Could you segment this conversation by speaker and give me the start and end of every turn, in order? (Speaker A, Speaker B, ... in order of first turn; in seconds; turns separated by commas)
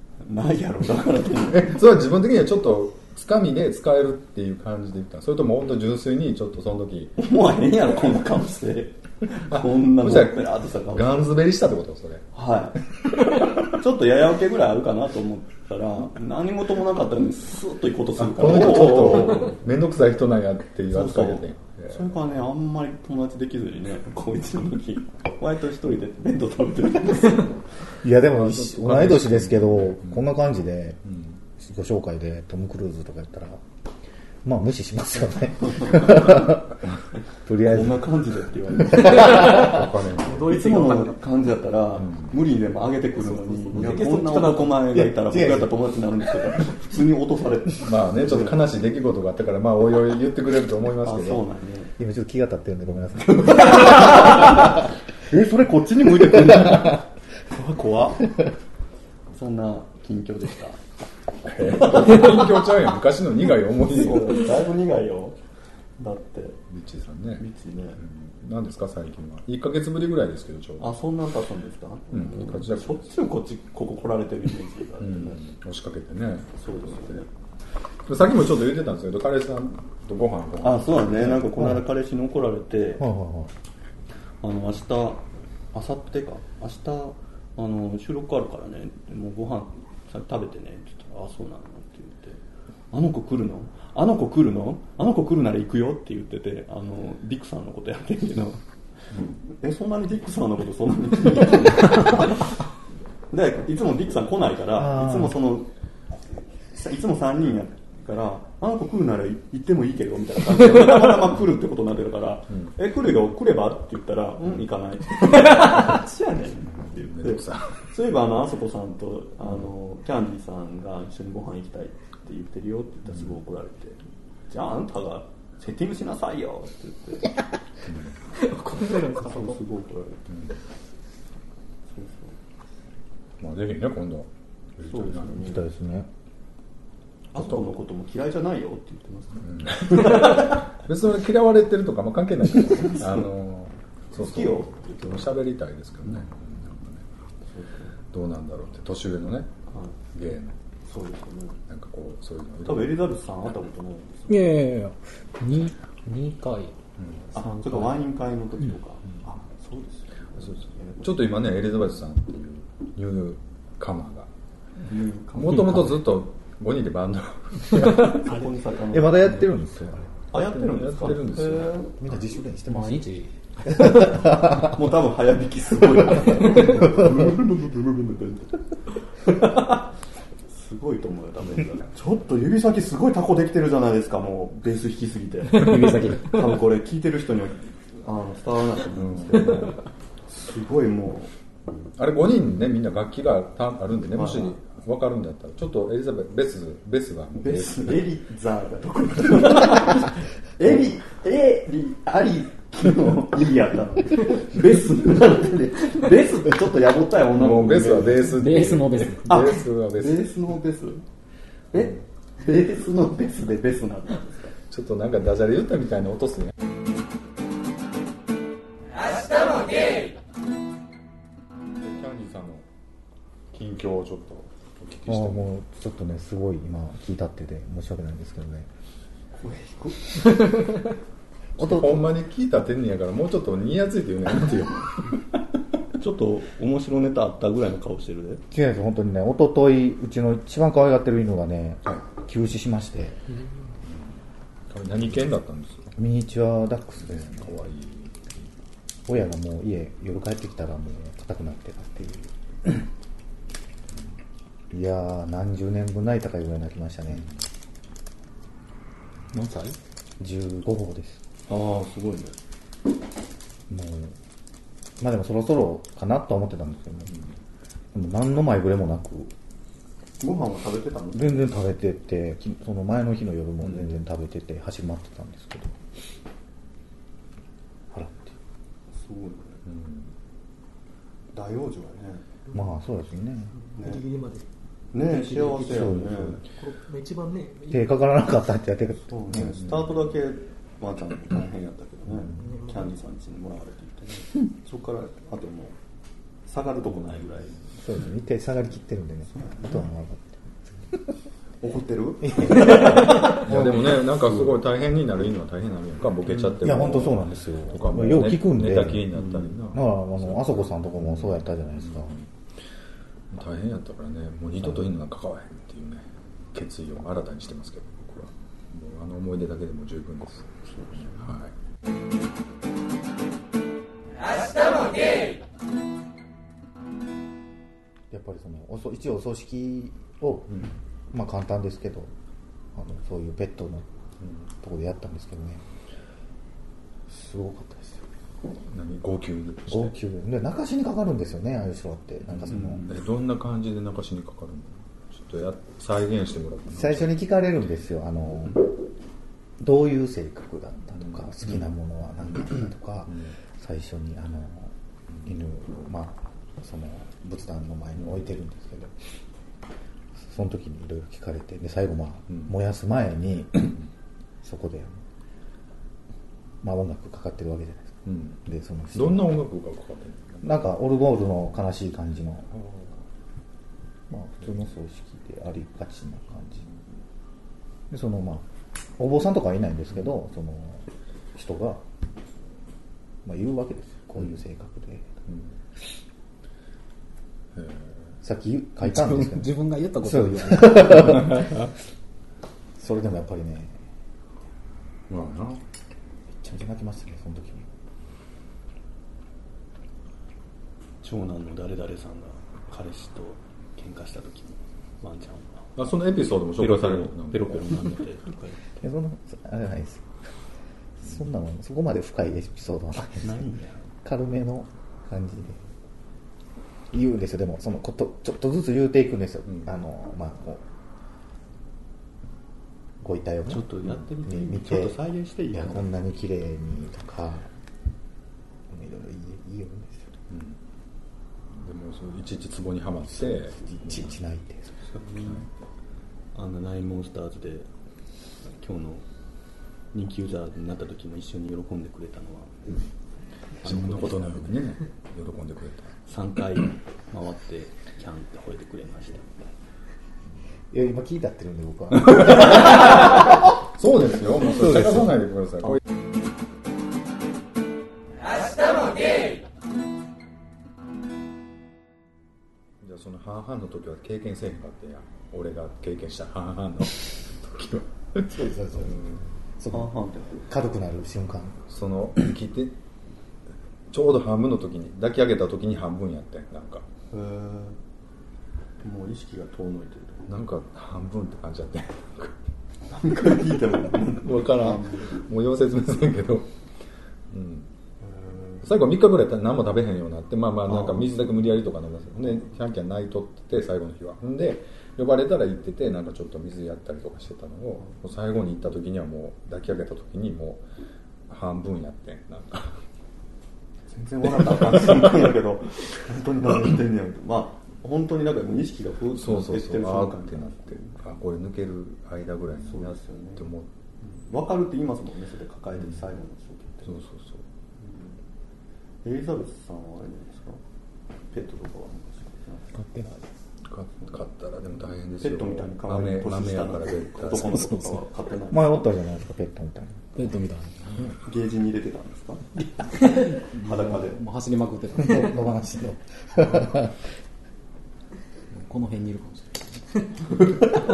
Speaker A: 0.2-1.8, Speaker B: 1.5-7.1, Speaker A: 7.2-11.3, Speaker B: 9.5-12.3, Speaker A: 12.3-12.9, Speaker A: 13.5-19.6, Speaker B: 18.2-22.1, Speaker A: 20.9-27.6, Speaker C: 28.0-31.0, Speaker B: 28.4-30.2, Speaker B: 31.1-31.4, Speaker C: 31.6-33.6, Speaker C: 34.4-36.8, Speaker A: 35.6-36.5, Speaker C: 37.4-38.0, Speaker A: 37.6-39.8, Speaker C: 39.1-39.5, Speaker B: 39.3-40.7, Speaker D: 39.5-41.2, Speaker A: 40.4-48.6, Speaker B: 42.0-42.3, Speaker D: 43.2-45.0, Speaker C: 44.9-45.7, Speaker B: 47.8-51.4, Speaker A: 51.0-51.9, Speaker C: 52.0-53.9, Speaker A: 53.5-58.3, Speaker A: 59.3-60.8, Speaker B: 61.4-64.5, Speaker A: 61.7-62.3, Speaker A: 63.8-65.3, Speaker A: 66.0-66.6, Speaker B: 66.7-67.5, Speaker A: 67.4-68.0, Speaker B: 68.0-71.0, Speaker A: 70.8-75.4, Speaker B: 72.1-73.0, Speaker B: 75.0-77.2, Speaker A: 76.6-77.3, Speaker B: 78.0-81.7, Speaker A: 80.6-83.0, Speaker C: 83.0-83.5, Speaker A: 84.4-92.4, Speaker A: 92.9-98.6, Speaker A: 99.4-102.6, Speaker A: 103.3-105.7, Speaker C: 104.8-105.3, Speaker A: 106.7-127.4, Speaker B: 116.7-117.9, Speaker B: 127.9-128.1, Speaker D: 128.3-129.6, Speaker A: 129.2-130.3, Speaker B: 130.3-130.5, Speaker A: 131.9-132.3, Speaker B: 133.4-135.5, Speaker A: 134.8-135.6, Speaker C: 135.4-136.1, Speaker A: 137.3-140.7, Speaker B: 139.4-147.0, Speaker A: 144.1-145.3, Speaker A: 147.5-147.9, Speaker B: 148.1-149.5, Speaker A: 149.7-150.0, Speaker B: 150.1-150.6, Speaker A: 150.8-151.6, Speaker B: 151.7-153.1, Speaker A: 152.6-154.5, Speaker E: 154.3-156.8, Speaker B: 157.0-157.3, Speaker A: 157.3-161.2, Speaker B: 160.4-164.3, Speaker A: 164.8-165.8, Speaker B: 165.3-168.3, Speaker A: 167.9-169.4, Speaker C: 168.9-170.1, Speaker A: 170.3-171.9, Speaker B: 170.3-171.8, Speaker C: 172.0-173.1, Speaker E: 172.7-173.8, Speaker C: 173.7-174.7, Speaker A: 173.7-178.6, Speaker A: 179.2-179.9, Speaker A: 180.5-191.3, Speaker E: 185.5-186.5, Speaker B: 188.9-189.7, Speaker B: 191.9-198.0, Speaker A: 194.1-194.6, Speaker A: 197.3-208.3, Speaker B: 207.3-210.3, Speaker E: 208.3-209.4, Speaker A: 209.2-211.0, Speaker A: 211.7-214.5, Speaker B: 214.7-216.5, Speaker B: 221.8-222.6, Speaker B: 223.5-225.5, Speaker C: 225.1-228.7, Speaker A: 229.4-230.7, Speaker C: 231.6-232.1, Speaker B: 231.6-235.4, Speaker A: 236.0-238.4, Speaker C: 238.5-243.2, Speaker B: 244.7-245.9, Speaker C: 246.0-247.6, Speaker B: 247.0-248.5, Speaker C: 249.1-252.7, Speaker C: 254.7-257.3, Speaker E: 259.3-259.8, Speaker C: 260.2-261.2, Speaker A: 261.5-262.4, Speaker C: 263.7-264.1, Speaker C: 265.0-267.1, Speaker C: 267.9-269.3, Speaker A: 270.2-271.4, Speaker C: 271.1-275.7, Speaker C: 277.9-278.4, Speaker A: 278.9-279.6, Speaker B: 279.6-280.1, Speaker A: 281.3-282.2, Speaker C: 282.5-283.5, Speaker D: 283.6-284.4, Speaker A: 283.8-284.0, Speaker A: 284.9-286.4, Speaker C: 285.5-286.4, Speaker D: 286.6-287.9, Speaker C: 287.7-289.5, Speaker A: 289.1-295.7, Speaker D: 292.4-292.9, Speaker A: 296.4-297.8, Speaker C: 297.8-300.4, Speaker A: 299.3-299.8, Speaker A: 301.6-303.4, Speaker C: 302.2-304.1, Speaker B: 303.0-312.2, Speaker A: 306.3-306.6, Speaker C: 306.6-312.1, Speaker A: 309.1-309.5, Speaker B: 313.3-321.5, Speaker A: 320.6-321.0, Speaker C: 328.1-332.1, Speaker C: 332.7-333.9, Speaker C: 334.6-335.6, Speaker C: 337.1-338.1, Speaker B: 338.7-339.9, Speaker C: 339.7-342.9, Speaker B: 342.3-347.1, Speaker C: 346.7-348.7, Speaker C: 349.6-354.7, Speaker C: 355.2-358.9, Speaker C: 360.2-363.8, Speaker C: 364.4-365.0, Speaker C: 366.6-369.4, Speaker B: 368.1-368.4, Speaker B: 368.9-370.5, Speaker C: 370.4-372.5, Speaker B: 372.6-372.9, Speaker C: 374.1-376.7, Speaker C: 377.9-378.4, Speaker C: 379.0-381.8, Speaker C: 383.2-385.1, Speaker B: 387.5-388.1, Speaker C: 388.2-391.6, Speaker E: 388.8-391.5, Speaker C: 392.8-393.8, Speaker B: 395.1-395.6, Speaker C: 396.4-397.7, Speaker A: 401.0-405.7, Speaker B: 405.8-408.0, Speaker A: 406.6-408.6, Speaker C: 408.8-410.1, Speaker C: 411.0-413.4, Speaker A: 413.2-413.8, Speaker C: 414.0-415.6, Speaker C: 416.9-420.6, Speaker C: 423.0-425.0, Speaker A: 423.5-425.9, Speaker C: 425.5-427.5, Speaker C: 428.7-430.1, Speaker B: 430.3-430.6, Speaker B: 431.5-434.1, Speaker C: 433.1-434.9, Speaker A: 434.9-435.5, Speaker A: 436.3-437.7, Speaker A: 438.4-439.0, Speaker A: 439.9-442.8, Speaker A: 443.6-444.6, Speaker B: 443.6-445.9, Speaker A: 446.1-449.5, Speaker C: 450.7-453.3, Speaker B: 452.2-455.8, Speaker B: 462.8-469.2, Speaker C: 468.3-469.9, Speaker A: 469.7-470.4, Speaker C: 470.4-471.6, Speaker B: 471.6-472.8, Speaker B: 473.9-476.9, Speaker A: 477.1-477.8, Speaker A: 478.8-480.3, Speaker B: 480.3-482.4, Speaker A: 482.9-485.2, Speaker B: 484.2-486.5, Speaker B: 487.3-487.7, Speaker A: 488.0-488.6, Speaker B: 488.6-500.6, Speaker A: 490.7-491.5, Speaker B: 501.3-502.8, Speaker A: 503.9-510.9, Speaker B: 509.1-513.7, Speaker A: 512.6-513.5, Speaker A: 514.0-516.9, Speaker B: 516.8-517.4, Speaker A: 517.8-518.1, Speaker A: 519.0-520.6, Speaker A: 521.3-522.7, Speaker E: 522.8-523.2, Speaker B: 523.7-527.6, Speaker A: 525.2-528.8, Speaker E: 527.5-528.0, Speaker C: 528.5-530.2, Speaker E: 530.1-531.2, Speaker A: 531.2-534.2, Speaker E: 533.1-535.5, Speaker C: 535.0-536.9, Speaker E: 538.5-540.5